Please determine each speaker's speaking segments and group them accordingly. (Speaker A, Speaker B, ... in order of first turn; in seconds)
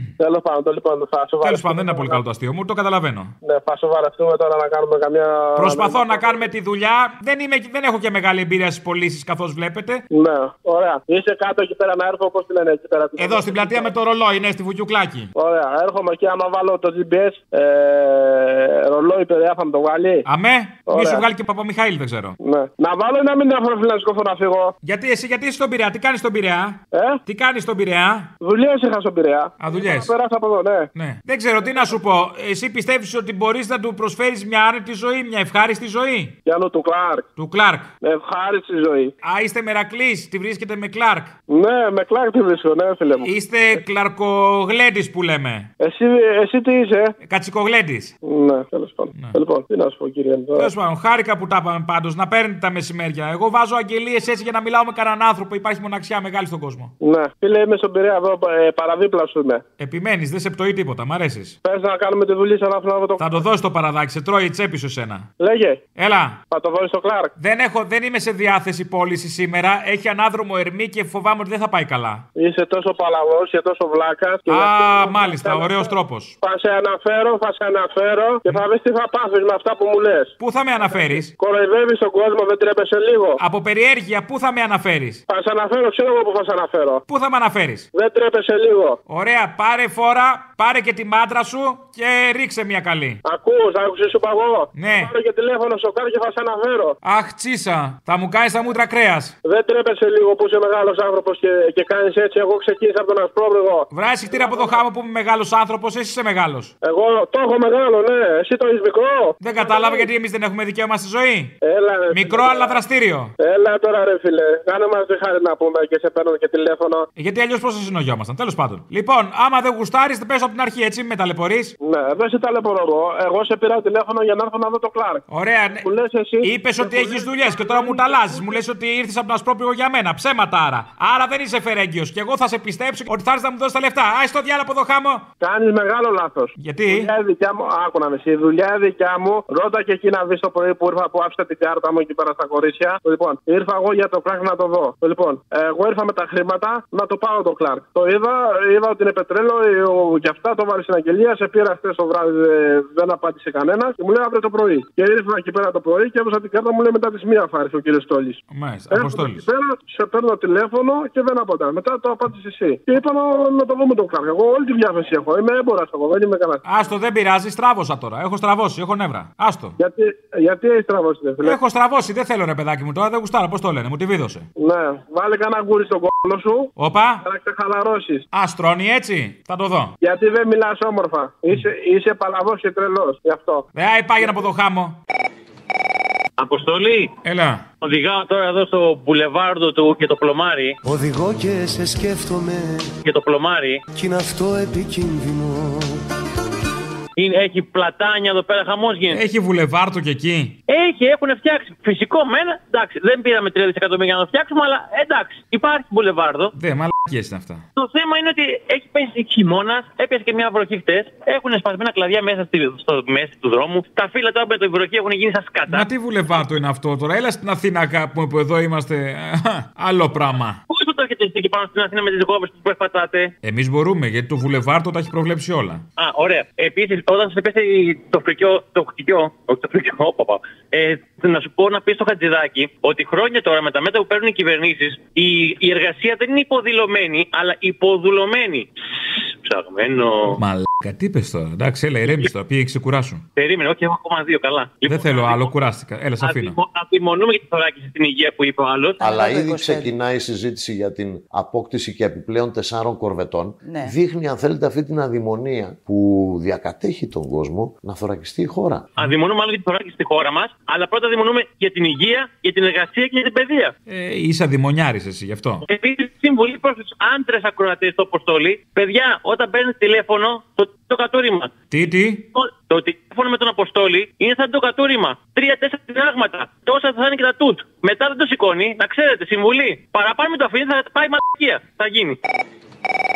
Speaker A: 0.2-2.2, 3.4-6.5, 10.1-13.9, 15.3-20.2, 20.9-21.2, 22.4-24.7, 26.9-27.2, 28.4-30.9, 36.5-37.2, 38.0-39.1, 41.5-43.8, 45.8-47.1, 48.2-50.7, 57.0-59.6, 61.6-63.4, 65.4-65.8, 66.5-67.3, 72.3-75.9, 76.4-83.4, 85.3-87.0, 87.9-89.0, 93.2-97.0, 99.4-104.8, 106.8-110.1, 111.6-112.8, 113.4-117.1, 121.8-125.2, 125.8-128.6, 135.4-166.6, 169.8-171.6, 174.6-178.2, 180.0-183.7
Speaker B: 1.4-3.3, 5.5-10.0, 13.2-15.3, 20.2-22.3, 24.8-28.3, 29.6-30.1, 30.9-36.3, 37.4-37.9, 39.2-41.3, 43.2-45.7, 47.2-48.1, 50.5-56.9, 59.8-61.6, 63.2-65.3, 66.0-66.4, 67.4-72.2, 74.5-76.3, 80.4-81.3, 83.4-85.2, 87.1-87.9, 89.1-93.2, 94.7-95.1, 97.0-99.3, 103.9-106.7, 109.4-111.5, 112.1-113.3, 117.2-121.7, 125.3-125.9, 126.4-135.2, 136.6-137.1, 158.5-159.4, 166.6-169.8, 171.4-174.4, 176.8-177.2, 178.3-179.9, 183.7-185.0, 187.2-187.7, 199.1-200.6, 206.6-207.6, 215.7-220.6, 223.4-225.8, 240.4-243.2, 244.8-246.6, 263.9-265.6, 271.7-272.2
Speaker C: 186.4-187.1, 187.8-190.8, 193.0-193.8, 197.2-199.2, 200.7-206.5, 207.8-215.8, 220.7-223.3, 226.0-238.7, 239.4-240.4, 243.3-245.5, 246.2-249.0, 259.0-263.7, 265.6-271.5, 272.3-282.2
Speaker D: 190.9-192.6, 194.0-195.8
Speaker E: 249.0-258.9